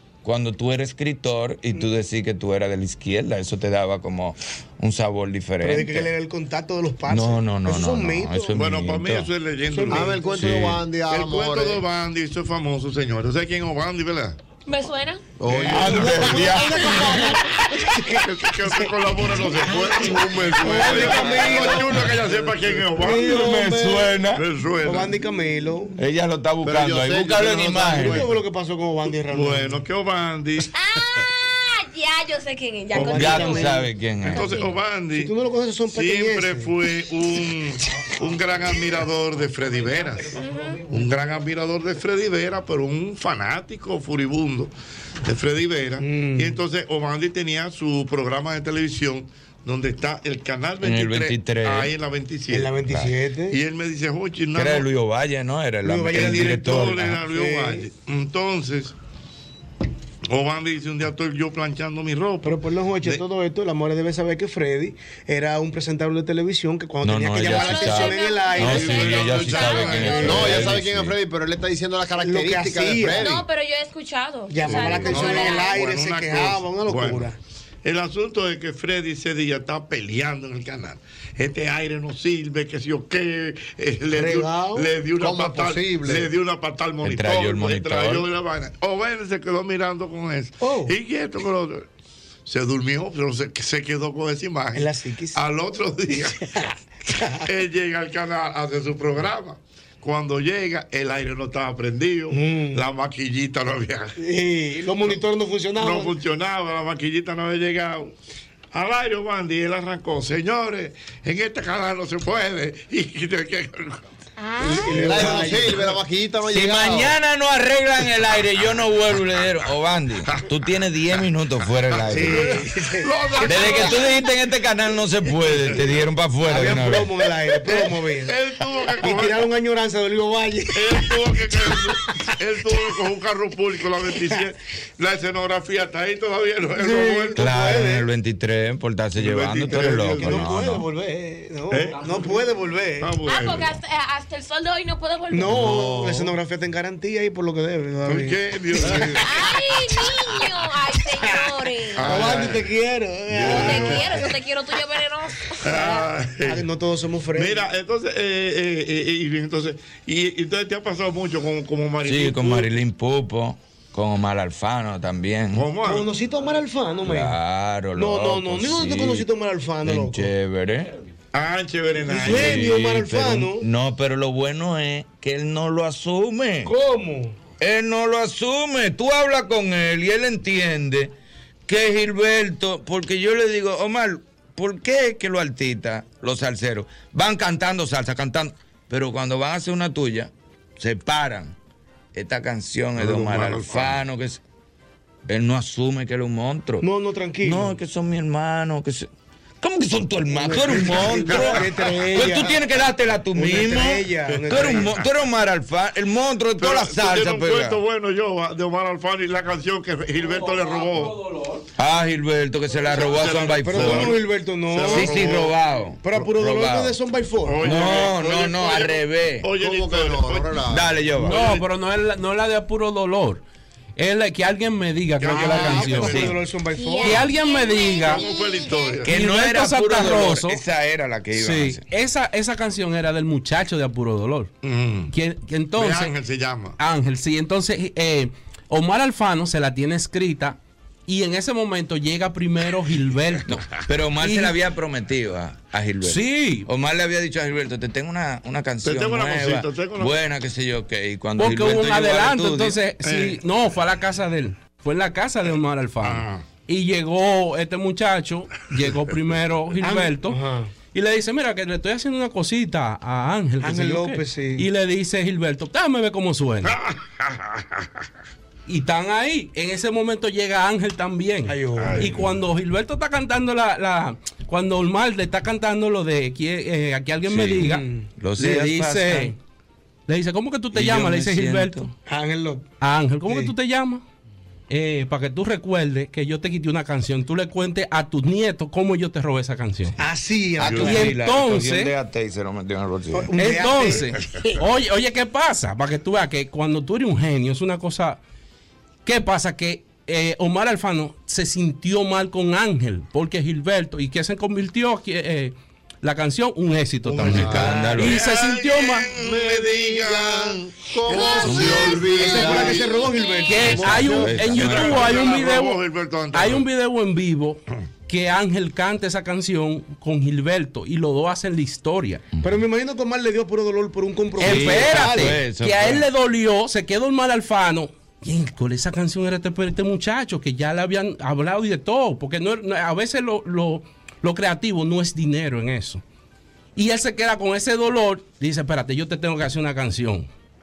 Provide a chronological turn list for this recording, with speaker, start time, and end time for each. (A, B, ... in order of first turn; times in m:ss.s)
0:00.2-0:06.1 A
0:05.6-0:08.6 B
0:07.1-0:09.3 A
0:08.5-0:10.2 C
0:09.7-0:10.4 B
0:09.9-0:11.8 D
0:10.3-0:10.8 A
0:11.1-0:14.4 C
0:14.6-0:15.2 E
0:15.4-0:16.0 D
0:15.5-0:16.4 C
0:15.7-0:17.1 A
0:15.7-0:18.9 B
0:18.1-0:23.4 C
0:19.6-0:22.1 B
0:20.4-0:21.5 D
0:23.0-0:24.2 B
0:23.1-0:24.4 A
0:24.3-0:25.2 C
0:24.8-0:26.0 B
0:26.0-0:28.3 A
0:26.6-0:28.3 D
0:27.9-0:29.8 B
0:29.3-0:30.7 C
0:30.7-0:33.7 E
0:32.9-0:33.6 C
0:33.0-0:33.8 B
0:33.1-0:34.5 A
0:34.3-0:35.3 C
0:34.3-0:34.7 E
0:35.1-0:36.7 B
0:35.9-0:44.7 C
0:40.3-0:40.8 E
0:45.2-0:52.7 C
0:46.0-0:46.6 B
0:50.8-0:51.9 A
0:52.5-0:53.6 B
0:52.8-0:53.1 A
0:53.5-0:54.9 C
0:54.5-0:57.2 A
0:55.8-0:57.8 B
0:56.1-0:58.9 C
1:00.3-1:03.2 C
1:02.4-1:09.3 B
1:07.0-1:11.2 A
1:07.4-1:10.5 E
1:08.6-1:10.7 C
1:09.9-1:10.4 B
1:10.2-1:13.4 D
1:12.2-1:13.4 B
1:13.2-1:15.8 E
1:14.5-1:17.4 B
1:14.6-1:17.3 C
1:17.8-1:31.8 C
1:24.1-1:24.9 B
1:25.2-1:26.3 D
1:27.0-1:28.3 A
1:30.6-1:30.9 B
1:32.4-1:36.4 C
1:34.7-1:35.4 B
1:36.1-1:37.4 B
1:37.4-1:44.2 C
1:42.3-1:42.8 B
1:44.2-1:46.1 B
1:45.8-1:48.1 C
1:48.7-1:54.0 C
1:54.4-1:55.2 E
1:54.6-1:55.9 B
1:54.9-1:57.2 D
1:55.0-1:55.6 C
1:56.5-2:02.6 A
2:02.0-2:04.0 C
2:02.1-2:04.0 B
2:03.4-2:07.1 A
2:05.5-2:05.8 C
2:06.4-2:08.4 B
2:07.6-2:09.5 C
2:09.0-2:11.8 B
2:10.7-2:17.4 C
2:16.8-2:18.1 B
2:17.4-2:20.8 A
2:19.2-2:20.5 C
2:19.7-2:23.1 B
2:21.7-2:22.0 C
2:23.0-2:23.8 C
2:23.2-2:25.6 E
2:25.3-2:29.3 B
2:25.7-2:26.2 D
2:28.0-2:29.6 C
2:29.2-2:32.3 E
2:32.0-2:32.7 C
2:32.0-2:34.3 B
2:33.3-2:34.3 C
2:33.4-2:36.1 E
2:35.6-2:36.6 C
2:36.4-2:37.6 B
2:37.3-2:42.7 C
2:42.0-2:45.7 A
2:45.5-2:46.1 C
2:45.8-2:47.4 B
2:47.0-2:49.3 A
2:47.9-2:50.3 B
2:49.8-2:50.9 A
2:51.3-2:52.7 C
2:52.1-2:53.6 B
2:52.2-2:56.7 A
2:56.6-2:57.4 B
2:57.6-3:01.1 A
3:01.7-3:11.5 A
3:12.1-3:14.4 A
3:13.0-3:14.0 C
3:15.3-3:16.8 A
3:16.8-3:17.8 B
3:17.4-3:19.1 A
3:19.6-3:27.8 A
3:20.3-3:22.6 B
3:20.8-3:21.6 C
3:23.3-3:25.0 B
3:24.3-3:25.0 C
3:26.6-3:31.2 C
3:30.2-3:31.6 F
3:31.8-3:34.2 A
3:32.8-3:35.5 C
3:33.6-3:38.1 B
3:34.9-3:37.0 A
3:37.4-3:41.7 C
3:37.6-3:39.5 A
3:39.6-3:40.9 D
3:40.7-3:41.5 A
3:41.2-3:43.4 F
3:44.0-3:46.2 F
3:45.2-3:46.4 C
3:45.2-3:47.3 B
3:46.0-3:46.4 A
3:46.7-3:49.0 E
3:47.0-3:48.2 F
3:48.1-3:49.1 C
3:49.0-3:51.8 A
3:49.1-3:50.6 F
3:51.3-3:54.5 F
3:54.6-3:55.1 C
3:55.1-3:56.1 F
3:55.8-3:56.8 C
3:56.8-4:03.5 F
4:03.5-4:12.8 A
4:04.2-4:04.6 F
4:06.0-4:06.7 F
4:08.8-4:10.2 C
4:11.4-4:20.4 F
4:13.0-4:13.4 C
4:16.0-4:16.4 C
4:19.8-4:20.7 B
4:20.9-4:26.8 F
4:23.6-4:24.6 B
4:26.6-4:27.8 C
4:28.7-4:37.8 F
4:31.5-4:32.2 B
4:31.8-4:32.2 C
4:37.2-4:39.3 A
4:37.6-4:38.1 B
4:38.4-4:39.4 F
4:40.1-4:41.9 F
4:40.7-4:41.9 A
4:42.1-4:42.7 B
4:42.8-4:44.0 F
4:44.7-4:50.0 F
4:50.0-4:51.2 B
4:50.6-4:53.3 A
4:50.6-4:50.9 C
4:50.8-4:51.9 F
4:53.1-4:54.5 B
4:53.3-4:58.2 F
4:59.0-5:09.2 F
5:07.0-5:12.8 C
5:07.2-5:08.2 A
5:07.3-5:07.7 D
5:07.6-5:08.0 B
5:09.2-5:12.9 D
5:11.1-5:14.5 B
5:11.4-5:12.0 A
5:13.4-5:15.8 F
5:13.7-5:15.2 A
5:14.4-5:16.6 C
5:16.3-5:22.3 F
5:22.4-5:25.4 B
5:24.4-5:36.0 F
5:24.4-5:26.0 A
5:36.8-5:40.3 F